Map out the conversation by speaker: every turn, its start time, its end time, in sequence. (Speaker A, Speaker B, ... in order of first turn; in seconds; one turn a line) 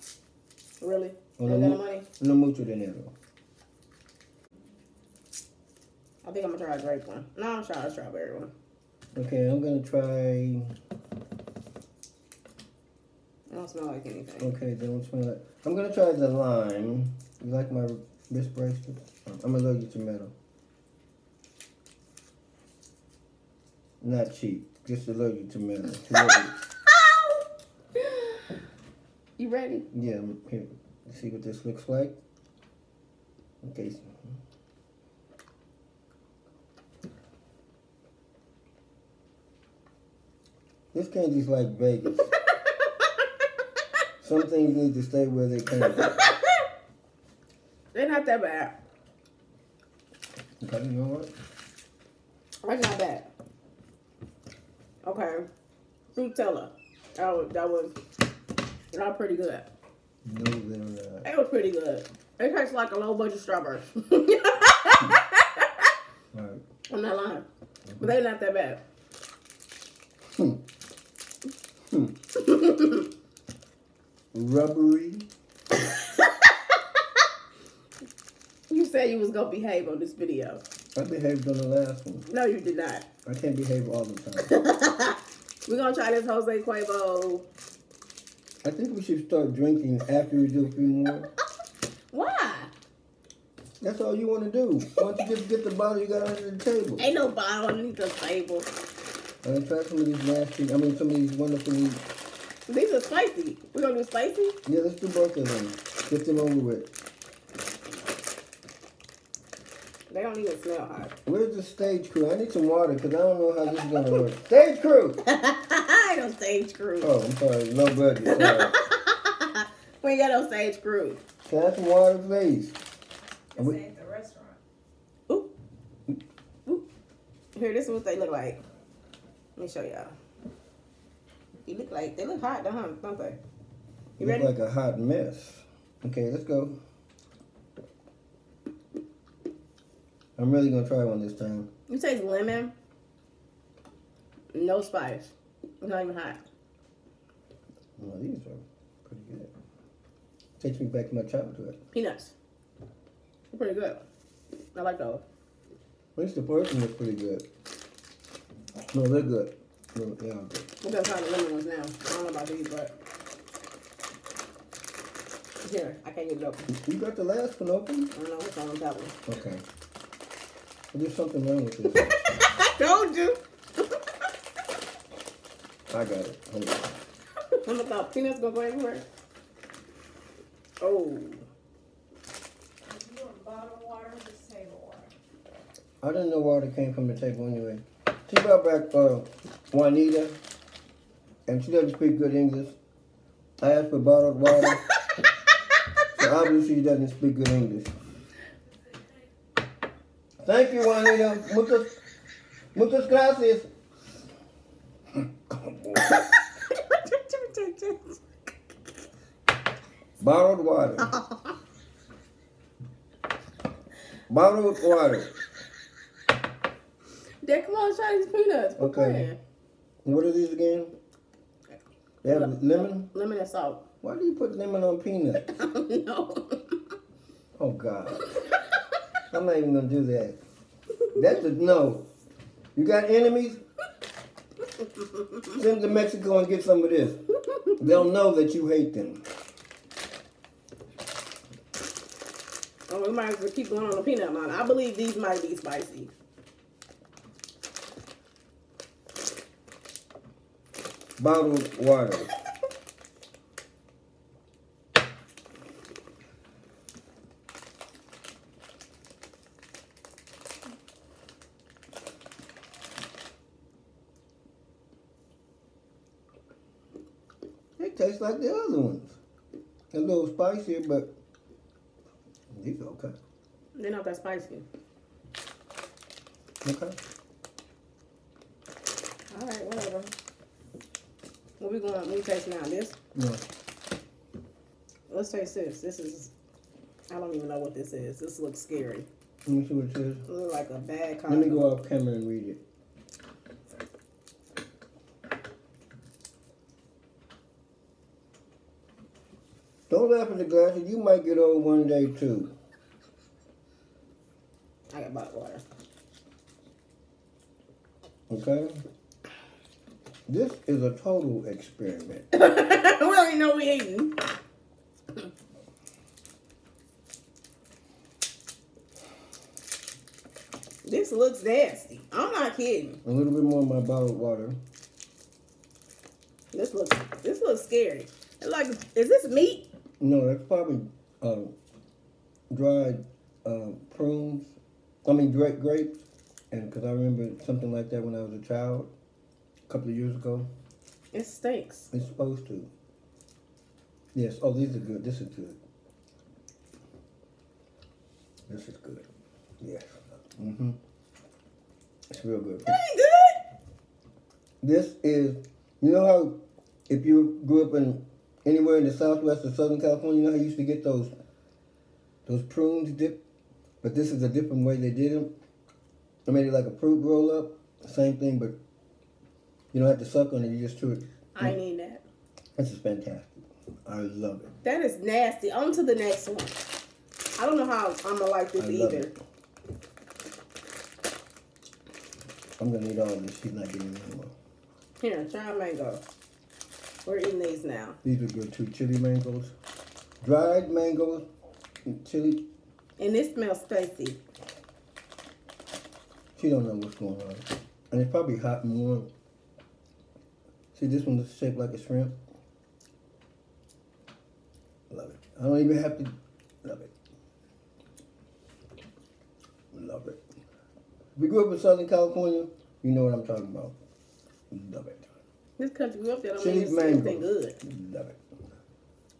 Speaker A: 0.8-2.1
Speaker B: 1.4-3.1
Speaker A: 6.2-8.5
Speaker B: 9.2-10.8
Speaker A: 13.5-14.5
Speaker B: 14.4-20.3
Speaker B: 24.0-26.6
Speaker A: 26.9-27.4
Speaker A: 28.0-28.4
Speaker A: 29.4-29.9
Speaker B: 29.9-32.2
Speaker B: 33.6-34.4
Speaker B: 40.9-42.3
Speaker A: 42.7-43.1
Speaker B: 44.2-46.2
Speaker A: 45.9-46.6
Speaker A: 47.9-48.8
Speaker B: 50.6-51.3
Speaker A: 52.6-53.3
Speaker A: 55.0-55.5
Speaker A: 56.1-58.0
Speaker A: 58.9-59.7
Speaker B: 60.2-61.3
Speaker A: 61.2-65.9
Speaker B: 66.3-66.6
Speaker A: 66.9-67.5
Speaker A: 68.0-68.8
Speaker B: 70.4-70.6
Speaker B: 71.9-72.2
Speaker A: 72.4-73.1
Speaker B: 74.3-75.3
Speaker A: 75.8-77.0
Speaker A: 78.7-80.6
Speaker B: 81.0-82.3
Speaker A: 82.3-83.1
Speaker B: 83.2-84.5
Speaker A: 84.5-87.5
Speaker B: 88.6-91.3
Speaker A: 92.1-92.7
Speaker B: 93.8-97.1
Speaker A: 97.0-98.7
Speaker B: 99.4-102.0
Speaker A: 102.7-104.6
Speaker B: 104.7-106.9
Speaker A: 110.1-111.1
Speaker B: 111.3-115.2
Speaker A: 113.8-114.2
Speaker A: 115.2-117.1
Speaker B: 117.0-118.8
Speaker A: 118.2-121.2
Speaker B: 121.5-122.8
Speaker B: 123.6-123.8
Speaker C: 123.9-124.5
Speaker A: 127.5-128.6
Speaker A: 129.6-130.1
Speaker A: 131.7-133.4
Speaker A: 134.2-134.5
Speaker B: 134.2-136.8
Speaker B: 140.4-141.7
Speaker A: 141.9-142.7
Speaker A: 144.5-146.4
Speaker B: 148.0-149.5
Speaker B: 150.6-151.8
Speaker A: 151.9-152.3
Speaker A: 153.5-154.0
Speaker A: 154.8-155.2
Speaker B: 156.2-157.5
Speaker B: 158.9-160.7
Speaker A: 160.8-162.9
Speaker A: 165.6-166.7
Speaker B: 166.7-168.1
Speaker A: 168.1-169.1
Speaker B: 169.3-169.6
Speaker B: 170.9-172.1
Speaker A: 171.9-174.3
Speaker B: 175.9-176.9
Speaker A: 177.5-179.1
Speaker A: 180.8-181.4
Speaker C: 183.1-184.9
Speaker B: 186.0-190.4
Speaker B: 191.5-192.8
Speaker B: 193.6-194.8
Speaker B: 196.2-197.9
Speaker B: 200.4-201.9
Speaker B: 202.8-203.7
Speaker B: 205.2-206.2
Speaker A: 206.0-208.2
Speaker B: 210.2-211.2
Speaker A: 211.1-211.5
Speaker B: 214.3-215.4
Speaker A: 217.4-219.4
Speaker B: 218.8-219.3
Speaker B: 220.1-220.9
Speaker B: 222.2-223.1
Speaker A: 222.2-223.8
Speaker B: 224.0-225.6
Speaker A: 225.4-226.8
Speaker B: 227.6-228.3
Speaker B: 229.3-230.4
Speaker B: 231.1-232.1
Speaker B: 232.8-233.6
Speaker A: 234.8-235.5
Speaker B: 235.6-237.2
Speaker B: 237.8-239.2
Speaker A: 242.9-246.1
Speaker B: 251.2-252.3
Speaker B: 267.8-269.2
Speaker B: 269.9-271.1
Speaker B: 272.5-273.1
Speaker A: 273.8-274.7
Speaker B: 276.6-277.0
Speaker A: 279.3-280.1
Speaker A: 281.6-282.9
Speaker B: 283.1-283.4
Speaker A: 285.1-286.3
Speaker A: 287.1-289.1
Speaker B: 289.5-290.3
Speaker A: 290.3-291.7
Speaker B: 291.3-292.6
Speaker B: 299.9-302.5
Speaker A: 304.9-305.6
Speaker B: 308.3-308.8
Speaker B: 310.3-312.3
Speaker A: 312.3-314.2
Speaker A: 320.9-323.0
Speaker B: 323.1-324.6
Speaker A: 326.5-329.7
Speaker B: 330.0-331.6
Speaker B: 332.5-334.5
Speaker B: 335.1-338.9
Speaker B: 339.7-340.5
Speaker A: 341.1-341.9
Speaker B: 341.9-342.7
Speaker B: 344.1-345.6
Speaker B: 348.5-349.1
Speaker B: 349.6-350.8
Speaker B: 352.1-352.8
Speaker A: 352.7-353.4
Speaker B: 354.6-361.1
Speaker B: 362.3-363.2
Speaker B: 363.8-365.3
Speaker B: 366.3-368.6
Speaker B: 369.7-371.6
Speaker A: 371.4-372.0
Speaker B: 372.6-374.5
Speaker A: 374.6-376.6
Speaker A: 377.4-379.1
Speaker B: 378.6-379.1
Speaker B: 382.6-384.3
Speaker A: 385.0-386.0
Speaker A: 387.1-388.0
Speaker B: 388.0-389.5
Speaker B: 390.2-391.3
Speaker B: 391.9-392.5
Speaker A: 393.0-394.2
Speaker B: 396.4-399.1
Speaker B: 400.7-402.2
Speaker B: 404.9-406.9
Speaker B: 409.7-410.2
Speaker B: 411.2-413.8
Speaker B: 414.5-415.1
Speaker A: 415.6-417.6
Speaker B: 416.4-418.2